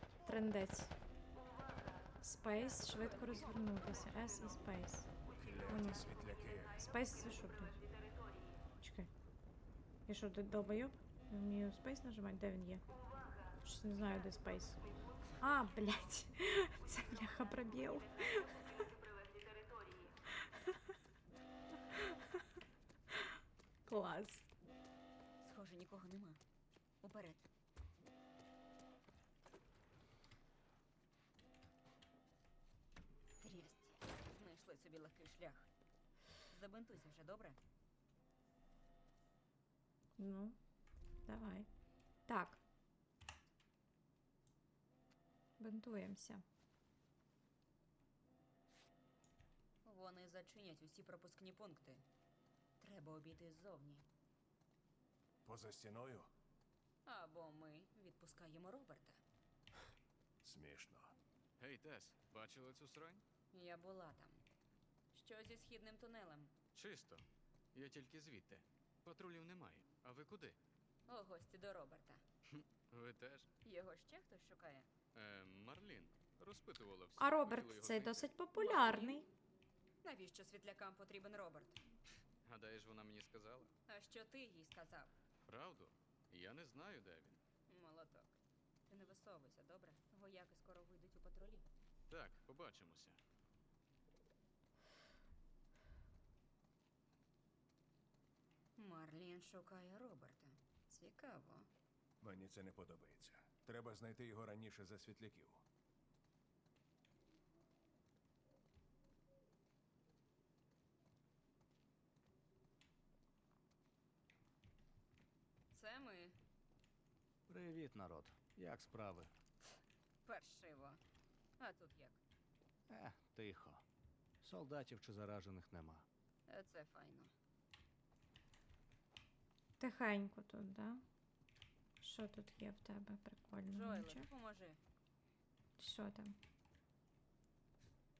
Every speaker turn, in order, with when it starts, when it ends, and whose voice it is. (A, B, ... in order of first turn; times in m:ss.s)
0:00.2-0:00.9 A
0:02.2-0:05.1 A
0:02.6-0:02.9 B
0:05.3-0:06.8 C
0:05.7-0:06.1 A
0:06.8-0:07.8 A
0:08.8-0:09.1 A
0:10.1-0:12.8 A
0:13.6-0:18.9 A
0:20.3-0:20.8 A
0:21.9-0:22.4 A
0:23.1-0:24.5 A
0:25.4-0:26.4 B
0:27.0-0:27.5 B
0:33.4-0:35.7 B
0:36.5-0:37.6 B
0:40.2-0:40.6 A
0:41.3-0:41.7 A
0:42.3-0:42.6 A
0:45.6-0:46.4 A
0:49.8-0:52.0 B
0:52.8-0:54.1 B
0:55.4-0:56.3 C
0:57.1-0:59.2 B
1:00.4-1:01.2 C
1:01.6-1:03.2 D
1:03.5-1:04.4 B
1:05.1-1:06.5 B
1:06.7-1:10.6 D
1:11.1-1:12.2 B
1:12.5-1:13.5 D
1:13.6-1:14.9 B
1:15.1-1:18.3 D
1:17.2-1:19.3 A
1:18.6-1:19.2 B
1:20.0-1:21.8 B
1:22.4-1:23.7 D
1:23.9-1:25.2 B
1:25.5-1:27.4 D
1:27.7-1:31.6 B
1:32.1-1:33.2 D
1:38.8-1:41.7 B
1:42.2-1:45.6 C
1:55.7-1:56.4 B
1:57.5-1:59.3 E
2:00.2-2:01.0 B
2:01.6-2:02.2 B
2:02.9-2:03.8 E
2:04.4-2:06.1 E
2:06.5-2:07.3 B
2:09.8-2:11.0 A
2:12.0-2:14.3 A
2:13.7-2:14.8 B
2:15.8-2:16.4 A